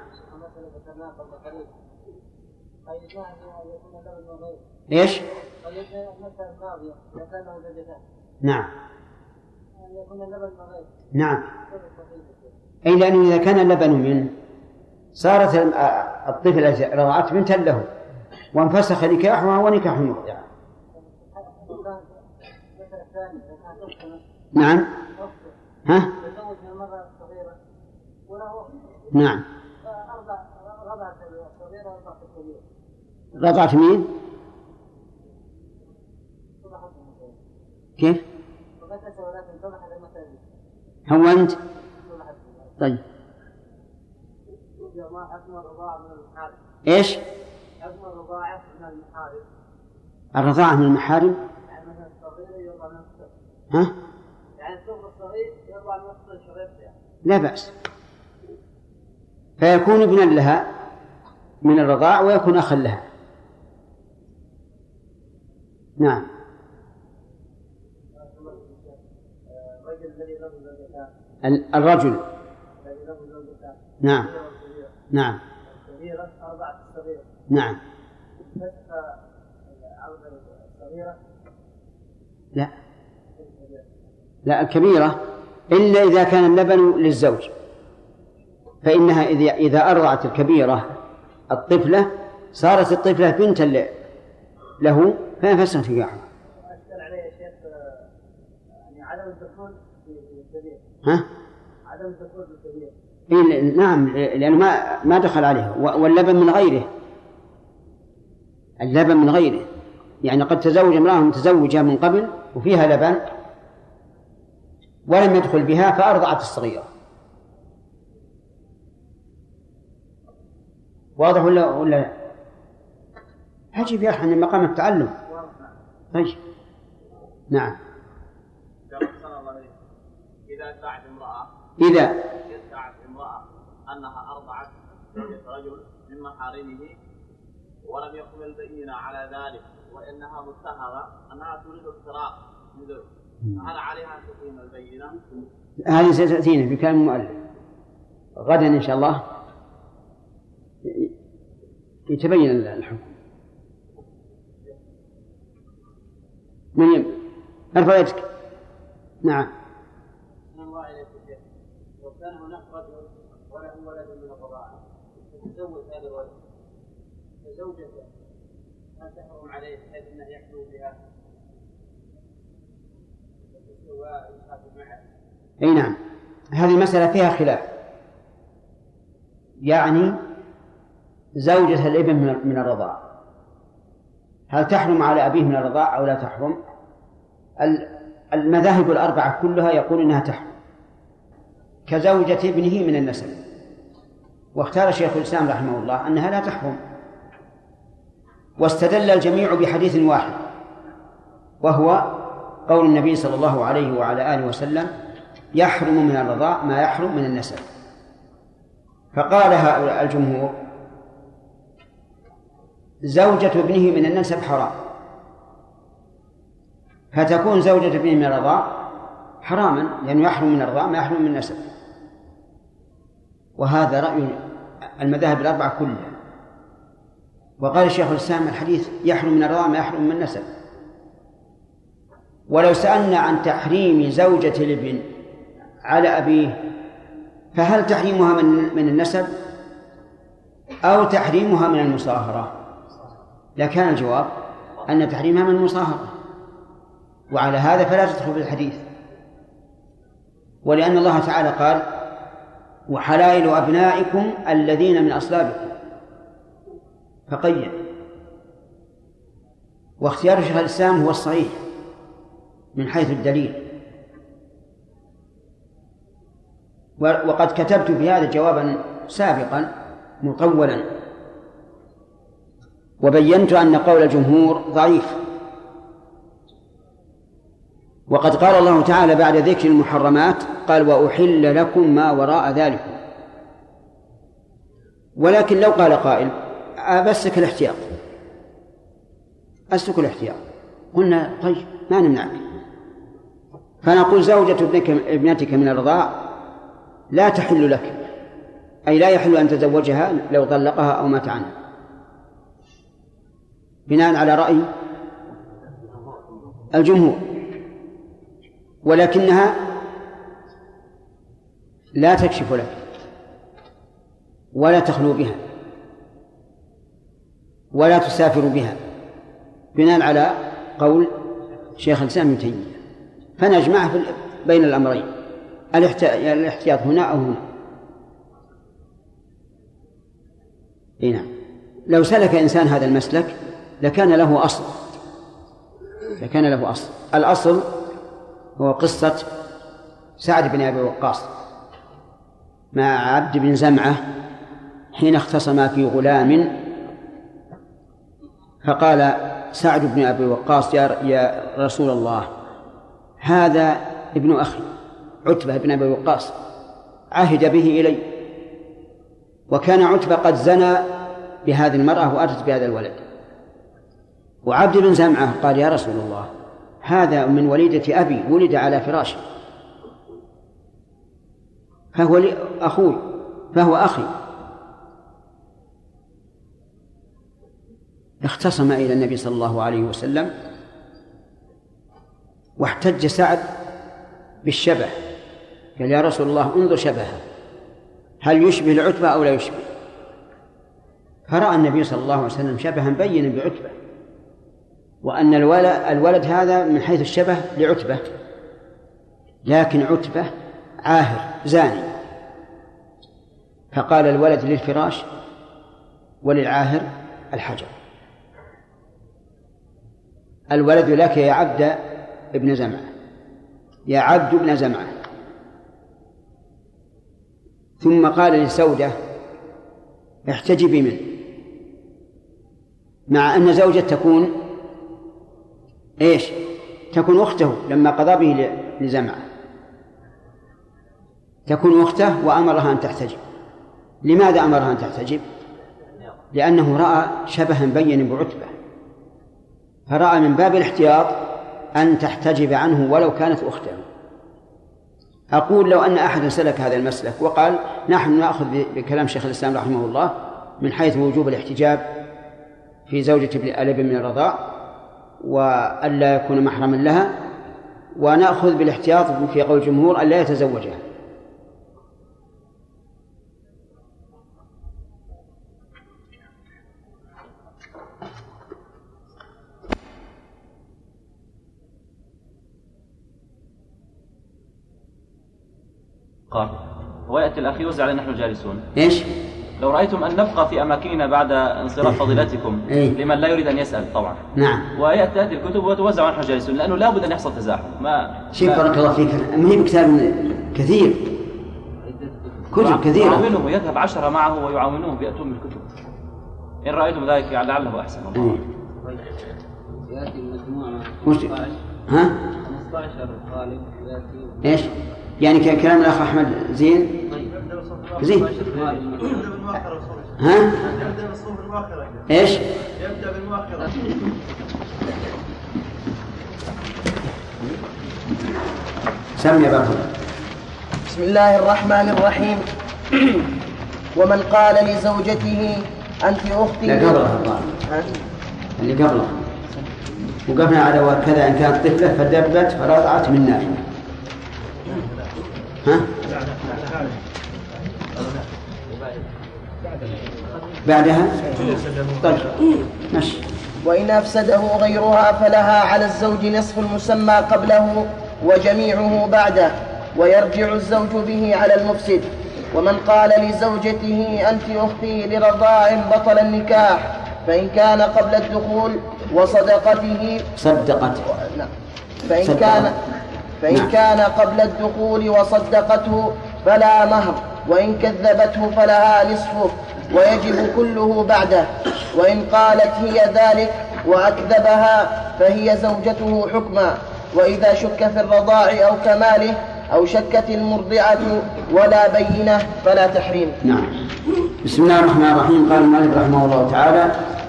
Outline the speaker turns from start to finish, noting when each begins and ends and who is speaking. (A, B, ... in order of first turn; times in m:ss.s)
0:00.3-0:01.7 A
0:02.9-0:04.6 A
0:04.9-0:05.2 B
0:05.6-0:08.0 A
0:08.4-0:08.7 B
0:09.8-0:10.9 A
0:11.2-0:11.4 B
0:11.7-0:12.5 A
0:12.9-0:14.3 B
0:15.2-0:17.9 B
0:18.5-0:20.4 B
0:21.0-0:22.2 A
0:22.7-0:24.2 A
0:24.6-0:24.9 B
0:25.1-0:25.5 A
0:25.9-0:26.1 B
0:26.1-0:27.6 A
0:28.3-0:29.1 A
0:29.1-0:29.4 B
0:29.8-0:32.6 A
0:33.4-0:34.1 B
0:36.6-0:37.4 A
0:38.8-0:40.4 A
0:41.1-0:41.6 B
0:42.0-0:42.8 A
0:44.9-0:46.6 A
0:46.9-0:47.2 B
0:47.8-0:49.5 A
0:50.4-0:51.4 B
0:51.7-0:53.3 A
0:54.6-0:56.9 A
0:57.2-0:57.7 B
0:59.6-1:00.7 B
1:01.6-1:03.1 B
1:06.0-1:06.3 B
1:08.2-1:09.0 A
1:09.5-1:11.1 A
1:11.4-1:12.2 B
1:12.8-1:14.9 A
1:14.0-1:14.3 B
1:15.1-1:15.4 B
1:15.7-1:17.3 A
1:17.5-1:17.8 B
1:18.5-1:21.2 A
1:23.4-1:23.8 A
1:24.5-1:25.2 B
1:25.7-1:27.5 B
1:28.8-1:30.9 B
1:31.5-1:33.9 B
1:34.8-1:36.3 B
1:36.7-1:38.1 A
1:38.9-1:40.8 A
1:41.9-1:42.9 A
1:43.3-1:46.9 B
1:48.8-1:49.7 B
1:50.2-1:53.3 B
1:55.1-1:56.9 B
2:01.2-2:02.2 B
2:03.7-2:05.2 B
2:05.3-2:05.7 A
2:07.5-2:07.8 B
2:08.9-2:09.7 C
2:10.5-2:11.5 C
2:11.8-2:12.2 B
2:12.5-2:17.0 C
2:17.8-2:25.4 C
2:25.8-2:27.4 B
2:28.4-2:29.2 B
2:30.8-2:31.1 B
2:32.1-2:33.1 B
2:36.8-2:37.2 B
2:37.8-2:38.3 B
2:39.2-2:39.5 B
2:40.5-2:41.4 A
2:42.0-2:44.8 A
2:45.3-2:46.3 A
2:47.4-2:48.1 A
2:49.0-2:51.0 A
2:53.6-2:55.0 A
2:55.6-2:56.0 B
2:56.5-2:57.7 B
2:59.6-3:00.2 B
3:01.4-3:03.0 B
3:04.5-3:06.6 B
3:07.6-3:10.6 B
3:11.9-3:13.4 B
3:14.6-3:16.8 B
3:18.6-3:20.4 B
3:21.6-3:24.9 B
3:25.5-3:27.6 B
3:29.1-3:30.5 B
3:33.1-3:34.8 B
3:37.1-3:38.9 B
3:39.4-3:41.7 B
3:43.6-3:44.4 B
3:45.0-3:46.2 B
3:47.6-3:50.5 B
3:52.5-3:55.1 B
3:55.8-3:56.7 B
3:57.5-3:59.3 B
4:00.8-4:02.6 B
4:03.6-4:06.1 B
4:07.3-4:08.9 B
4:10.6-4:12.0 B
4:12.9-4:15.8 B
4:17.3-4:17.8 B
4:20.0-4:21.6 B
4:22.8-4:23.7 B
4:27.0-4:29.7 B
4:30.2-4:30.9 B
4:33.0-4:35.2 B
4:38.1-4:43.0 B
4:45.2-4:47.9 B
4:49.7-4:50.4 B
4:50.9-4:52.4 B
4:53.8-4:56.3 B
4:57.1-4:58.1 B
4:58.9-5:01.6 B
5:03.9-5:04.7 B
5:06.7-5:07.4 B
5:08.8-5:09.7 B
5:12.0-5:12.8 B
5:14.5-5:15.4 B
5:17.7-5:18.8 B
5:19.8-5:21.2 B
5:21.8-5:22.8 B
5:23.4-5:25.1 B
5:25.7-5:27.4 B
5:31.0-5:31.3 B
5:31.9-5:34.8 B
5:36.2-5:37.7 B
5:38.6-5:39.3 B
5:40.2-5:41.3 B
5:42.7-5:44.0 B
5:44.9-5:46.7 B
5:48.6-5:52.3 B
5:53.2-5:54.7 B
5:55.2-5:56.4 B
5:57.1-5:58.2 B
5:59.5-6:03.0 B
6:04.4-6:06.3 B
6:06.8-6:09.2 B
6:12.0-6:14.1 B
6:18.2-6:20.3 B
6:22.6-6:23.5 B
6:24.4-6:25.0 B
6:25.8-6:27.2 B
6:28.2-6:29.7 B
6:31.3-6:33.8 B
6:35.0-6:38.0 B
6:39.4-6:41.9 B
6:43.7-6:45.1 B
6:46.2-6:47.7 B
6:50.5-6:52.9 B
6:53.9-6:55.0 B
6:57.8-6:59.0 B
7:00.3-7:01.2 B
7:03.1-7:04.4 B
7:06.0-7:09.2 B
7:11.5-7:13.2 B
7:14.0-7:15.2 B
7:16.3-7:18.5 B
7:19.9-7:23.8 B
7:25.3-7:31.9 B
7:32.9-7:34.4 B
7:35.2-7:37.2 B
7:38.0-7:40.8 B
7:56.3-7:58.7 D
7:58.8-7:59.1 B
7:59.6-8:08.6 D
8:02.7-8:03.0 B
8:04.4-8:04.7 B
8:08.3-8:11.2 B
8:12.5-8:15.7 D
8:12.5-8:13.2 B
8:16.6-8:18.4 D
8:21.0-8:21.3 B
8:21.9-8:22.2 B
8:24.4-8:27.1 B
8:28.0-8:28.3 B
8:28.3-8:28.6 C
8:30.2-8:30.6 B
8:30.6-8:31.9 E
8:32.1-8:32.5 B
8:32.8-8:33.5 E
8:39.2-8:39.9 B
8:40.9-8:42.5 F
8:44.0-8:47.1 F
8:46.7-8:47.5 B
8:48.6-8:49.2 B
8:50.3-8:53.7 B
8:55.6-8:55.9 B
9:00.6-9:02.4 B
9:02.9-9:03.2 B
9:03.6-9:20.3 F
9:20.4-9:21.1 B
9:21.2-9:21.5 F
9:22.1-9:22.8 F
9:22.2-9:22.7 B
9:23.4-9:43.4 F
9:43.4-9:43.8 B
9:44.4-9:47.1 B